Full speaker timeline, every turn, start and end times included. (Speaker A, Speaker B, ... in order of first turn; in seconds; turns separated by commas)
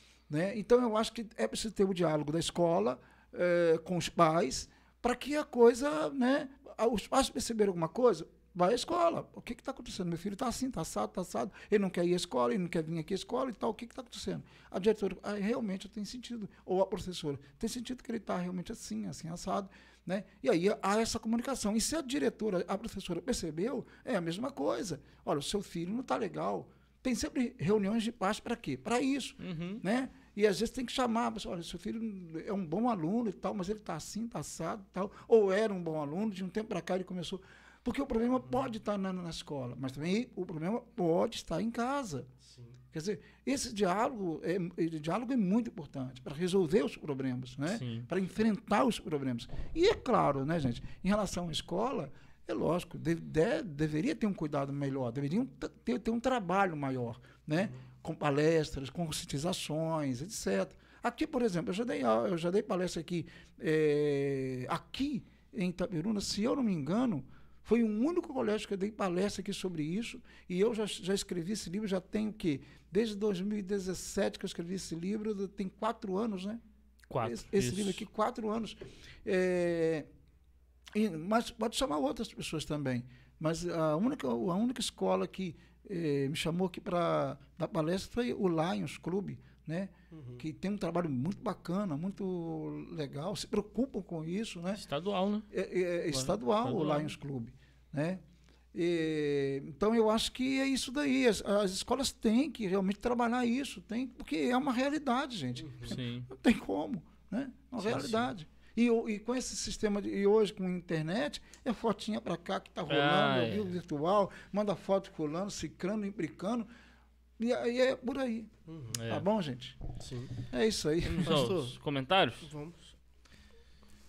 Speaker A: 0.3-42.3, Speaker B: 29.4-29.8, Speaker C: 42.4-42.8, Speaker A: 42.9-76.6, Speaker B: 47.7-48.1, Speaker B: 77.1-78.0, Speaker A: 77.2-80.1, Speaker A: 80.9-94.8, Speaker C: 90.1-90.5, Speaker B: 94.8-95.5, Speaker A: 95.5-98.2, Speaker B: 96.2-97.2, Speaker A: 98.7-116.7, Speaker C: 105.6-106.0, Speaker B: 105.9-106.3, Speaker C: 107.8-108.3, Speaker B: 112.9-113.7, Speaker A: 117.4-118.5, Speaker C: 118.7-119.0, Speaker B: 119.0-119.3, Speaker A: 119.1-119.8, Speaker C: 120.0-120.3, Speaker A: 120.4-121.5, Speaker B: 121.0-122.5, Speaker C: 121.2-121.8, Speaker C: 122.4-122.9